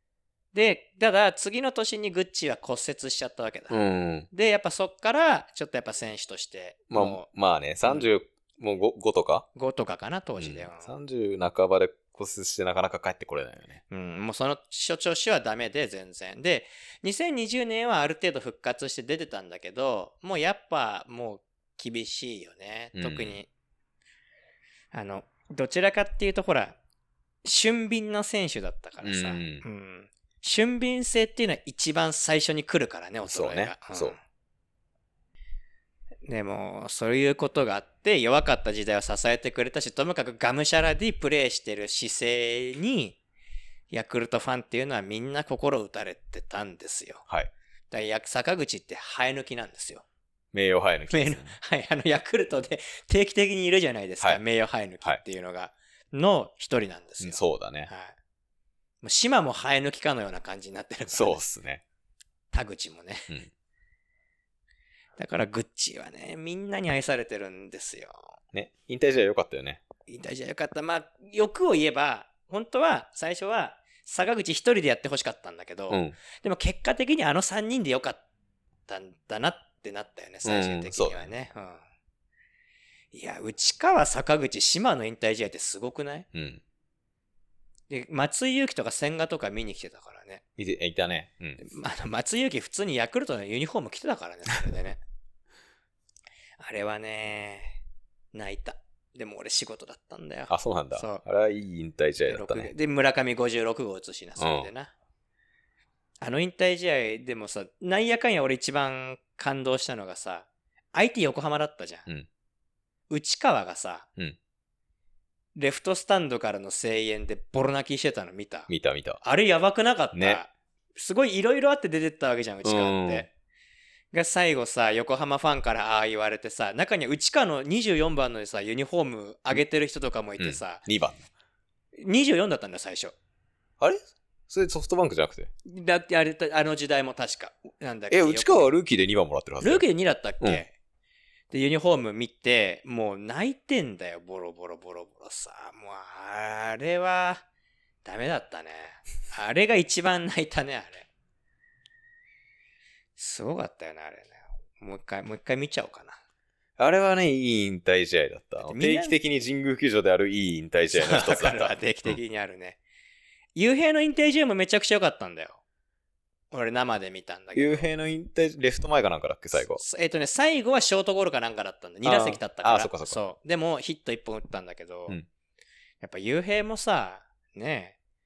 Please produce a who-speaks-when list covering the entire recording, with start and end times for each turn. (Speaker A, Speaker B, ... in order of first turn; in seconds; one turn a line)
Speaker A: 0.5-3.8
Speaker B: 3.7-4.3
Speaker A: 4.3-7.2
Speaker B: 6.9-9.4
Speaker A: 9.5-10.9
Speaker B: 10.4-13.8
Speaker A: 13.9-23.5
Speaker B: 22.9-23.4
Speaker A: 24.9-26.8
Speaker A: 27.4-34.2
Speaker B: 29.0-29.6
Speaker B: 33.3-34.1
Speaker A: 36.2-43.2
Speaker A: 43.9-47.2
Speaker A: 47.9-50.0
Speaker B: 50.5-51.5
Speaker A: 51.1-58.1
Speaker B: 57.2-57.9
Speaker A: 59.0-61.4
Speaker B: 61.1-61.8
Speaker A: 62.5-63.3
Speaker A: 65.2-68.2
Speaker B: 68.5-69.8
Speaker A: 70.1-78.2
Speaker B: 75.9-76.2
Speaker A: 78.9-81.8
Speaker B: 80.4-81.3
Speaker A: 83.1-86.3
Speaker B: 86.3-86.6
Speaker A: 87.9-90.4
Speaker B: 90.6-91.6
Speaker A: 91.6-95.0
Speaker A: 96.6-97.8
Speaker A: 98.3-101.2
Speaker B: 100.5-102.7
Speaker A: 102.3-104.9
Speaker B: 104.4-104.7
Speaker A: 106.2-112.1
Speaker A: 113.1-114.1
Speaker A: 115.5-118.7
Speaker B: 118.7-119.2
Speaker A: 119.2-123.3
Speaker B: 120.1-120.4
Speaker B: 122.6-123.3
Speaker A: 124.1-130.8
Speaker B: 130.4-131.2
Speaker A: 131.9-133.1
Speaker B: 133.8-135.5
Speaker A: 135.6-138.7
Speaker B: 138.1-139.8
Speaker A: 139.6-140.7
Speaker A: 141.5-147.4
Speaker A: 148.0-151.1
Speaker A: 153.2-156.2
Speaker B: 156.8-162.2
Speaker A: 158.6-159.2
Speaker A: 160.9-162.8
Speaker A: 163.5-165.6
Speaker A: 166.5-167.8
Speaker B: 167.5-169.8
Speaker A: 169.7-175.2
Speaker B: 172.0-173.2
Speaker A: 176.0-177.9